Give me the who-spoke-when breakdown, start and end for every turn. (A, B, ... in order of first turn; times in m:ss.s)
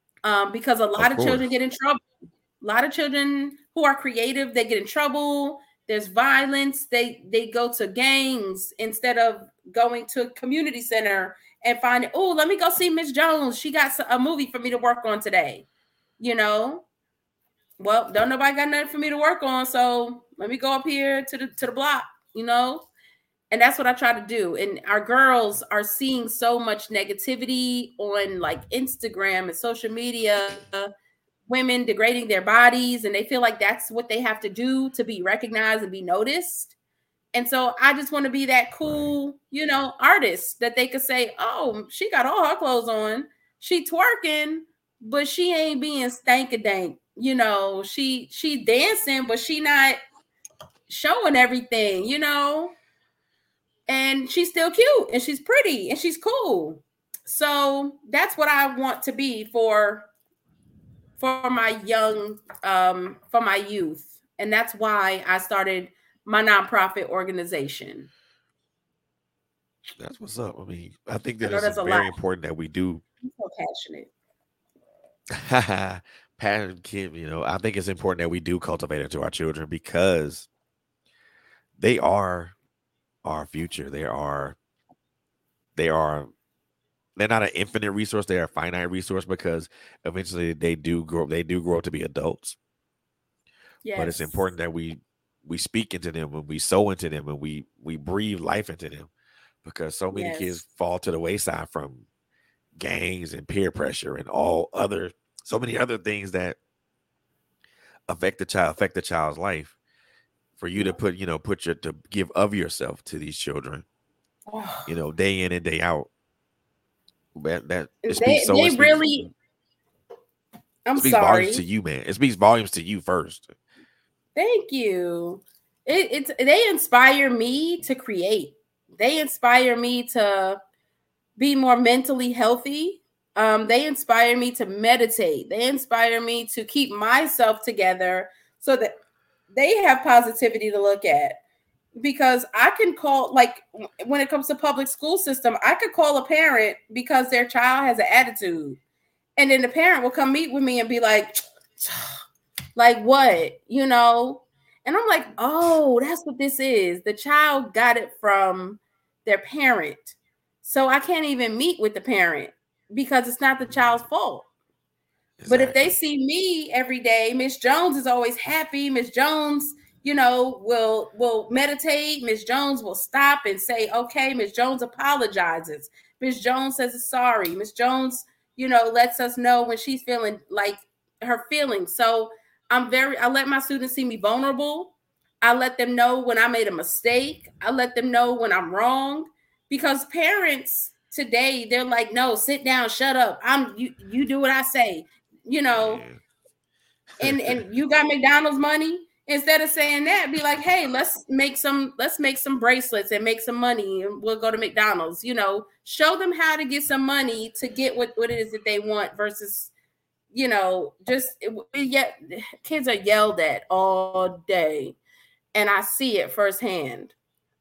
0:00.2-0:02.0 A
0:01.0-0:01.4 B
0:02.6-0:15.7 A
0:16.2-0:16.8 A
0:17.8-0:22.9 A
0:23.5-0:30.9 A
0:31.5-0:36.7 A
0:37.3-0:50.0 A
0:50.9-0:52.8 A
0:53.9-1:00.1 A
1:01.2-1:08.1 A
1:10.0-1:13.0 B
1:11.4-1:12.1 A
1:13.2-1:14.1 A
1:15.4-1:20.5 B
1:21.8-1:22.6 B
1:23.2-1:24.6 B
1:25.8-1:26.3 B
1:27.2-1:32.6 B
1:33.8-1:34.4 A
1:34.0-1:39.1 B
1:39.6-1:42.1 B
1:40.1-1:40.6 A
1:42.8-1:46.6 B
1:48.1-1:49.8 B
1:50.6-1:53.8 B
1:54.5-1:54.9 A
1:54.9-1:56.1 B
1:57.4-1:59.3 B
1:58.0-1:59.3 A
2:00.9-2:01.6 A
2:01.0-2:03.5 B
2:04.4-2:10.6 A
2:11.4-2:19.0 A
2:19.5-2:21.4 A
2:22.0-2:28.8 A
2:29.4-2:32.2 A
2:32.8-2:44.5 A
2:45.4-2:45.9 B
2:45.5-3:16.0 A
3:15.7-3:16.2 B
3:17.2-3:17.6 B
3:17.2-3:29.7 A
3:30.3-3:35.0 A
3:35.5-3:37.1 A